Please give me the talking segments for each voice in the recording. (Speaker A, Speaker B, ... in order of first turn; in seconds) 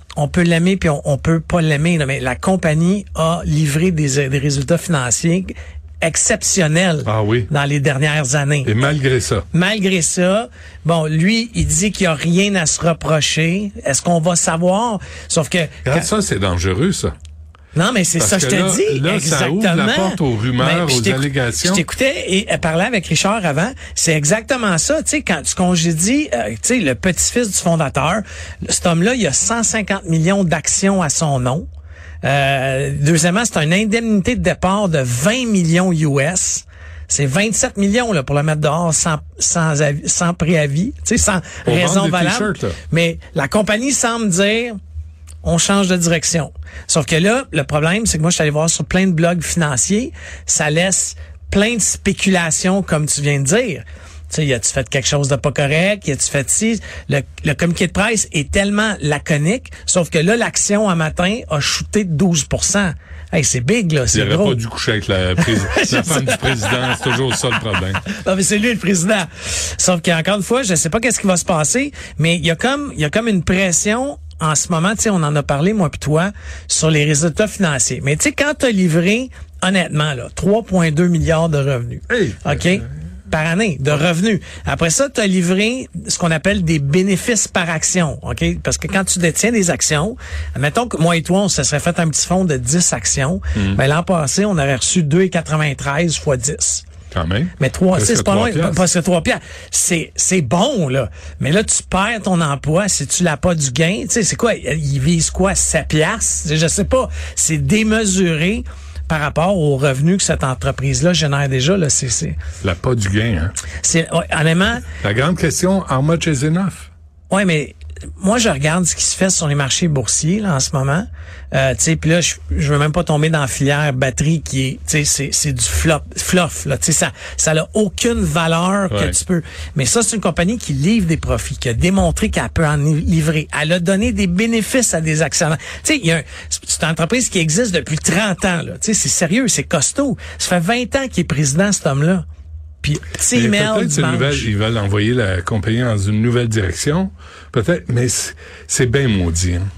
Speaker A: 0.2-8.7, 9.5-16.1, 17.7-31.6, 32.2-44.8, 45.4-64.6, 65.4-67.3, 68.0-96.8, 97.6-112.4, 113.8-114.9, 117.3-142.2, 142.8-144.5
Speaker B: 7.0-7.5, 8.6-9.4, 15.8-17.1, 18.2-21.8, 41.6-42.8, 64.1-68.0, 82.1-82.8, 97.1-98.8, 112.6-113.5, 114.8-116.9, 128.9-129.2, 143.3-149.7